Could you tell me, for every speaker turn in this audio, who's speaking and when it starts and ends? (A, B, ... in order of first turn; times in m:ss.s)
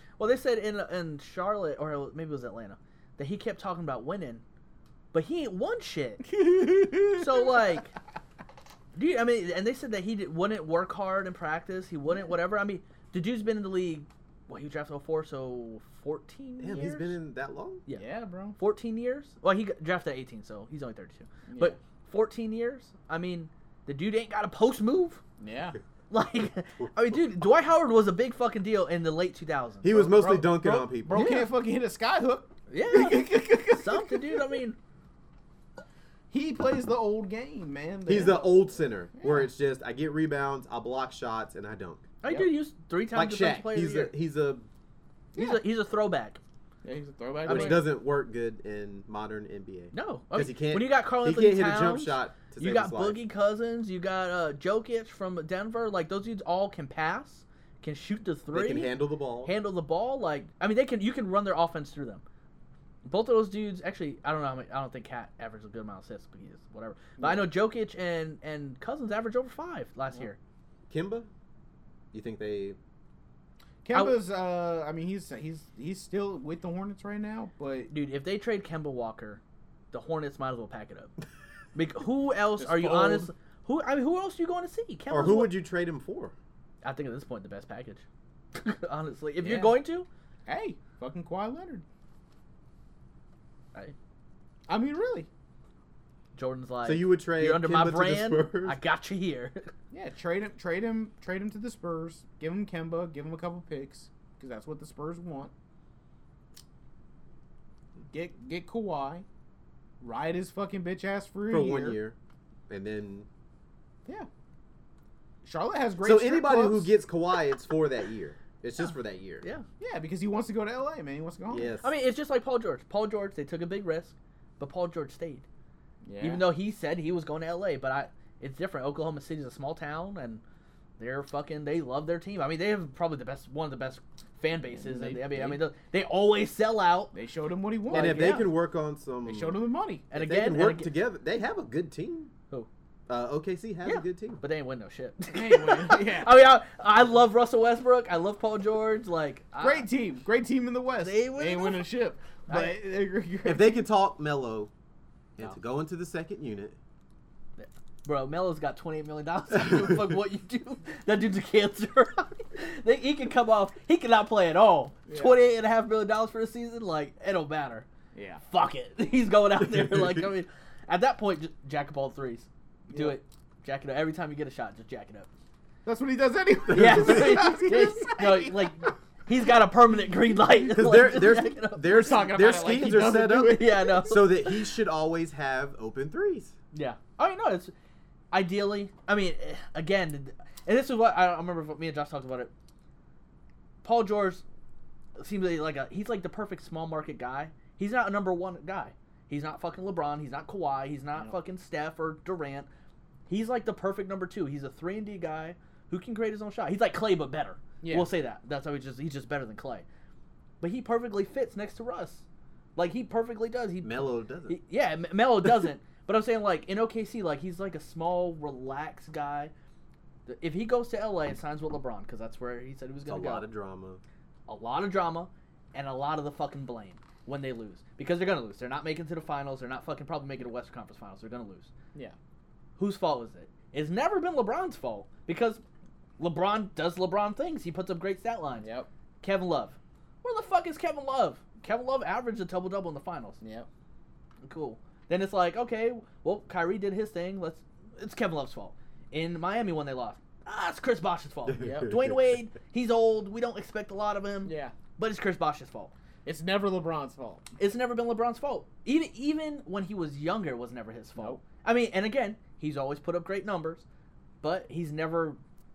0:00.2-0:04.4 A
0:05.1-0:06.4 A
0:06.2-0:07.7 B
0:07.0-0:07.9 A
0:08.9-0:17.2 A
0:16.6-0:17.8 C
0:17.9-0:18.6 B
0:18.6-0:25.2 A
0:21.5-0:21.8 B
0:25.4-0:25.8 B
0:26.1-0:29.9 A
0:29.8-0:31.2 C
0:29.9-0:34.6 B
0:31.1-0:31.5 A
0:32.7-0:34.8 A
0:36.3-0:38.6 B
0:38.0-0:42.1 C
0:39.2-0:39.5 B
0:42.2-0:44.1 A
0:42.2-0:42.5 B
0:43.1-0:44.6 C
0:45.3-0:46.4 A
0:46.8-0:47.9 B
0:47.4-0:47.8 A
0:47.5-0:53.2 C
0:49.9-0:58.9 A
0:58.5-0:59.5 C
0:59.4-1:02.2 A
1:03.0-1:10.4 A
1:07.2-1:07.4 B
1:10.9-1:11.3 C
1:12.1-1:12.8 C
1:13.8-1:17.9 B
1:13.9-1:14.2 A
1:17.9-1:19.4 A
1:19.9-1:21.1 A
1:21.7-1:25.5 A
1:22.6-1:23.3 B
1:25.1-1:26.3 C
1:26.8-1:30.1 A
1:29.4-1:29.7 B
1:30.5-1:31.8 B
1:34.7-1:35.3 B
1:36.3-1:39.7 A
1:36.8-1:38.8 C
1:39.9-1:45.5 B
1:48.1-1:49.2 B
1:50.0-1:52.0 B
1:51.5-1:52.2 C
1:52.7-1:53.3 C
1:55.4-1:56.9 B
1:56.0-1:59.4 C
1:59.8-2:01.8 B
2:01.5-2:01.9 C
2:01.8-2:05.4 A
2:06.0-2:06.4 B
2:06.2-2:10.4 A
2:11.0-2:17.1 A
2:14.7-2:15.6 B
2:17.1-2:18.4 B
2:17.9-2:18.5 A
2:17.9-2:19.6 C
2:19.3-2:20.1 B
2:20.1-2:20.9 A
2:20.1-2:22.3 C
2:23.1-2:24.4 C
2:23.8-2:29.9 A
2:25.3-2:26.3 B
2:29.6-2:33.8 B
2:31.0-2:32.0 A
2:32.5-2:32.8 A
2:33.4-2:34.7 C
2:35.4-2:36.8 C
2:37.6-2:47.9 A
2:45.1-2:45.4 B
2:48.1-2:48.4 B
2:48.5-2:55.3 A
2:49.6-2:50.3 C
2:52.9-2:53.2 B
2:55.8-2:58.9 B
2:56.7-2:57.6 C
2:56.7-3:02.3 A
3:00.7-3:06.6 C
3:00.9-3:04.1 B
3:03.5-3:04.6 A
3:06.7-3:07.7 A
3:08.3-3:12.5 A
3:13.8-3:14.4 A
3:15.2-3:22.7 A
3:23.3-3:29.8 A
3:27.8-3:28.1 B
3:30.6-3:32.2 A
3:32.8-3:39.5 A
3:33.8-3:34.6 C
3:40.3-3:43.4 A
3:43.0-3:44.0 C
3:44.5-3:51.7 A
3:52.8-3:55.6 A
3:56.2-3:58.7 A
3:58.6-3:58.9 B
3:59.2-4:03.4 A
4:03.4-4:03.7 B
4:04.4-4:15.9 A
4:11.5-4:12.2 C
4:11.6-4:11.9 B
4:14.4-4:14.7 B
4:16.2-4:17.4 B
4:17.6-4:23.8 A
4:21.2-4:21.4 B
4:24.4-4:25.4 A